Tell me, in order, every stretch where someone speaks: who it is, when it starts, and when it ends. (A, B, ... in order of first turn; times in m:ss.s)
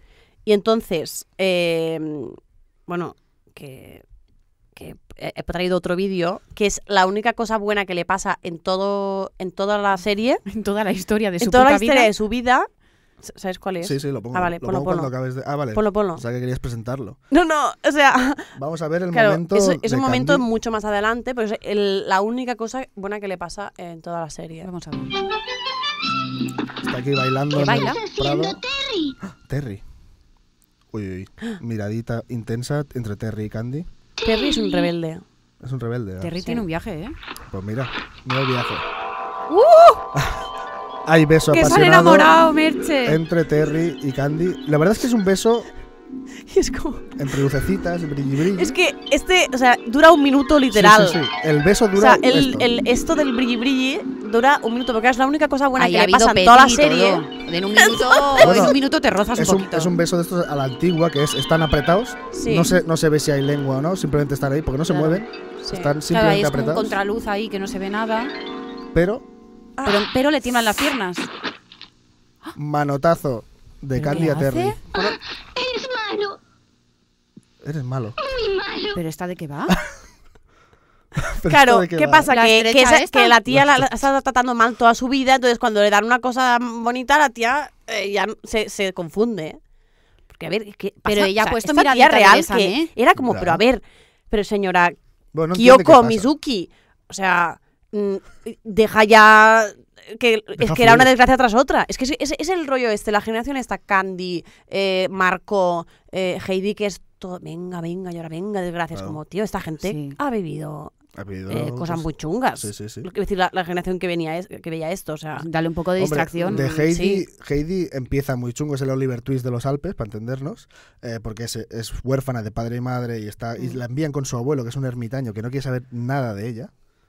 0:00.4-0:04.0 A
0:04.8-0:10.4 A
0:10.5-0:12.1 B
0:11.4-0:12.7 A
0:13.2-0:15.1 A
0:13.8-0:17.2 C
0:15.7-0:16.2 A
0:17.3-0:18.5 A
0:18.5-0:20.4 C
0:19.1-0:24.7 A
0:24.6-0:25.2 B
0:26.8-0:28.6 C
0:27.5-0:28.0 B
0:27.6-0:29.2 D
0:29.4-0:29.8 C
0:30.9-0:33.9 C
0:34.2-0:34.9 D
0:34.2-0:35.2 A
0:35.6-0:36.3 C
0:36.2-0:37.1 B
0:37.5-0:38.8 C
0:39.5-0:40.0 B
0:40.1-0:40.5 C
0:41.0-0:42.3 C
0:41.5-0:43.2 B
0:43.0-0:45.7 C
0:46.5-0:47.2 A
0:47.2-0:48.8 C
0:48.5-0:51.2 A
0:50.7-0:52.7 C
0:52.0-0:57.2 A
0:55.8-0:59.9 B
0:57.8-0:58.7 A
0:58.4-0:58.8 C
0:59.3-1:06.9 C
1:02.3-1:02.7 A
1:05.6-1:05.9 A
1:06.1-1:08.3 B
1:08.9-1:09.2 C
1:09.8-1:10.1 A
1:09.8-1:11.3 B
1:12.6-1:14.8 C
1:13.9-1:14.8 B
1:14.9-1:16.4 D
1:17.6-1:18.2 C
1:18.2-1:19.0 D
1:18.9-1:19.8 B
1:21.2-1:22.3 C
1:21.4-1:29.6 A
1:22.3-1:23.3 B
1:23.5-1:23.9 C
1:30.3-1:35.0 A
1:31.0-1:32.9 B
1:33.2-1:33.6 C
1:35.3-1:36.3 C
1:35.5-1:50.9 A
1:40.6-1:41.1 C
1:48.9-1:49.2 C
1:49.8-1:50.2 B
1:51.2-1:53.1 C
1:51.5-1:55.4 A
1:55.4-1:56.7 B
1:56.0-2:06.7 C
1:56.4-1:57.2 A